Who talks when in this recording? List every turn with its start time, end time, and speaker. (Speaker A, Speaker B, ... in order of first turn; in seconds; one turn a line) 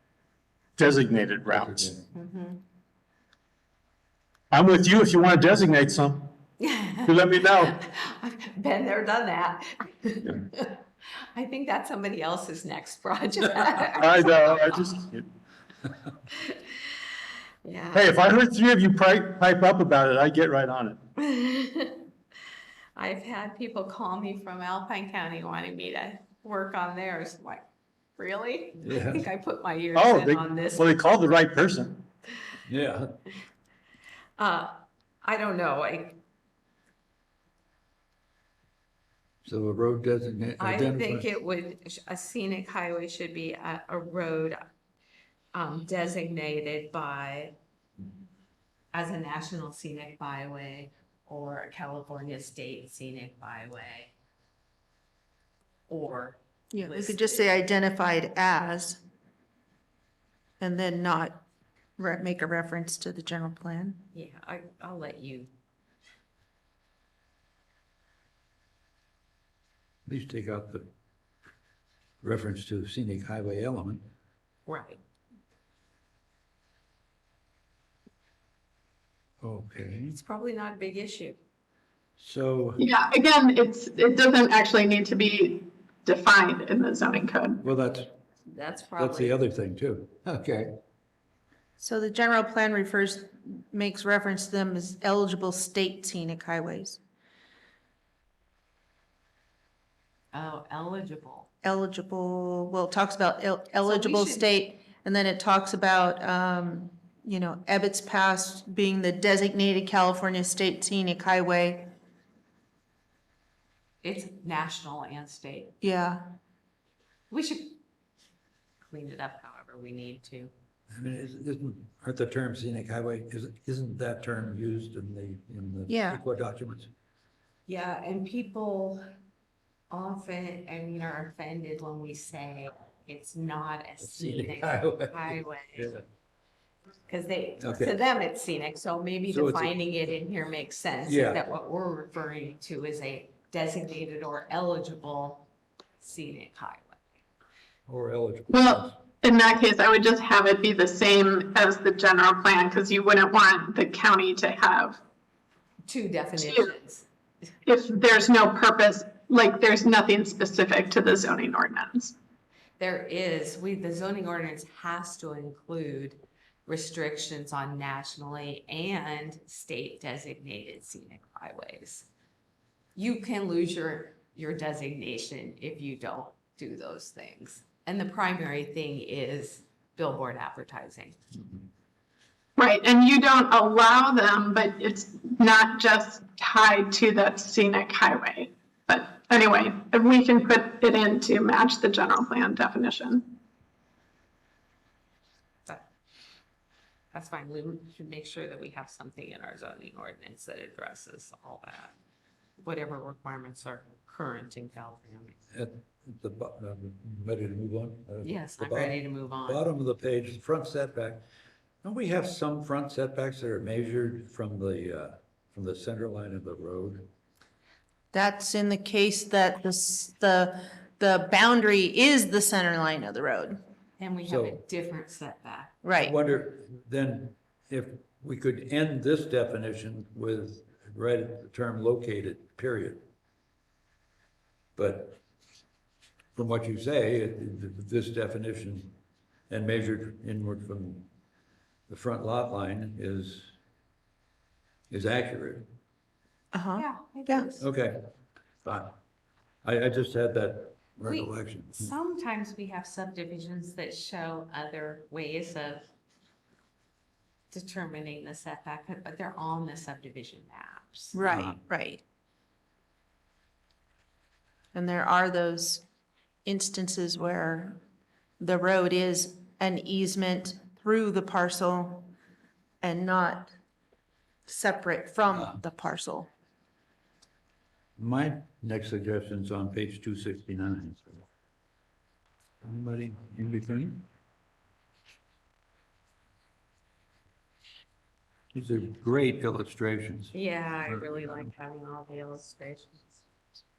Speaker A: 0.8-1.9
Speaker B: 1.5-2.0
Speaker C: 2.1-2.6
Speaker A: 4.5-6.3
Speaker C: 6.6-10.8
Speaker A: 7.1-7.8
Speaker C: 11.3-14.2
Speaker A: 13.8-15.2
Speaker C: 17.6-18.1
Speaker A: 17.9-21.0
Speaker C: 21.2-22.1
Speaker C: 23.0-30.9
Speaker B: 28.8-29.3
Speaker A: 29.9-32.0
Speaker B: 32.7-33.2
Speaker C: 34.4-36.2
Speaker B: 39.5-41.3
Speaker C: 40.6-44.6
Speaker C: 45.5-47.6
Speaker C: 48.9-54.1
Speaker C: 55.9-57.5
Speaker D: 56.7-59.0
Speaker D: 60.6-61.4
Speaker D: 62.0-64.0
Speaker C: 64.1-65.5
Speaker B: 70.1-70.9
Speaker B: 72.2-74.0
Speaker C: 74.7-75.0
Speaker B: 79.4-80.2
Speaker C: 80.1-81.4
Speaker B: 82.2-82.8
Speaker E: 82.8-87.6
Speaker B: 87.6-88.1
Speaker C: 88.5-89.4
Speaker B: 89.0-90.7
Speaker D: 91.8-97.0
Speaker C: 100.3-101.5
Speaker D: 101.6-111.9
Speaker C: 103.8-104.5
Speaker C: 114.0-115.8
Speaker D: 115.8-116.2
Speaker C: 117.3-117.8
Speaker C: 118.8-120.5
Speaker B: 120.9-126.9
Speaker D: 125.9-126.2
Speaker C: 127.7-129.0
Speaker C: 129.9-136.0
Speaker B: 134.0-136.0
Speaker C: 137.1-145.5
Speaker B: 137.6-138.0
Speaker B: 139.3-139.8
Speaker B: 141.1-141.4
Speaker C: 146.0-147.0
Speaker B: 147.9-149.0
Speaker E: 148.5-155.0
Speaker C: 155.9-157.1
Speaker E: 156.4-156.7
Speaker E: 157.7-162.1
Speaker C: 162.8-172.1
Speaker C: 172.9-181.2
Speaker E: 182.6-193.3
Speaker C: 197.1-201.9
Speaker C: 202.6-205.4
Speaker B: 205.5-211.2
Speaker C: 208.2-209.6
Speaker B: 211.8-217.1
Speaker D: 218.1-223.6
Speaker C: 224.0-225.7
Speaker B: 224.2-224.6
Speaker D: 225.8-226.2
Speaker B: 225.9-233.0
Speaker B: 234.8-235.2
Speaker B: 236.3-238.9
Speaker B: 239.5-241.1
Speaker B: 241.9-243.6
Speaker B: 244.9-245.7
Speaker D: 246.5-247.5
Speaker C: 246.8-247.7
Speaker B: 247.6-248.0
Speaker B: 248.7-248.9
Speaker B: 249.6-251.9
Speaker C: 251.0-255.9
Speaker C: 257.5-261.2
Speaker D: 261.1-262.0
Speaker B: 261.3-261.6
Speaker D: 264.7-265.8
Speaker D: 266.4-267.8
Speaker D: 268.4-272.1
Speaker D: 272.8-273.5
Speaker D: 274.5-276.3
Speaker B: 275.3-275.6
Speaker B: 278.0-281.2
Speaker B: 282.6-284.1
Speaker B: 288.5-290.4
Speaker C: 290.3-293.2
Speaker B: 290.9-291.5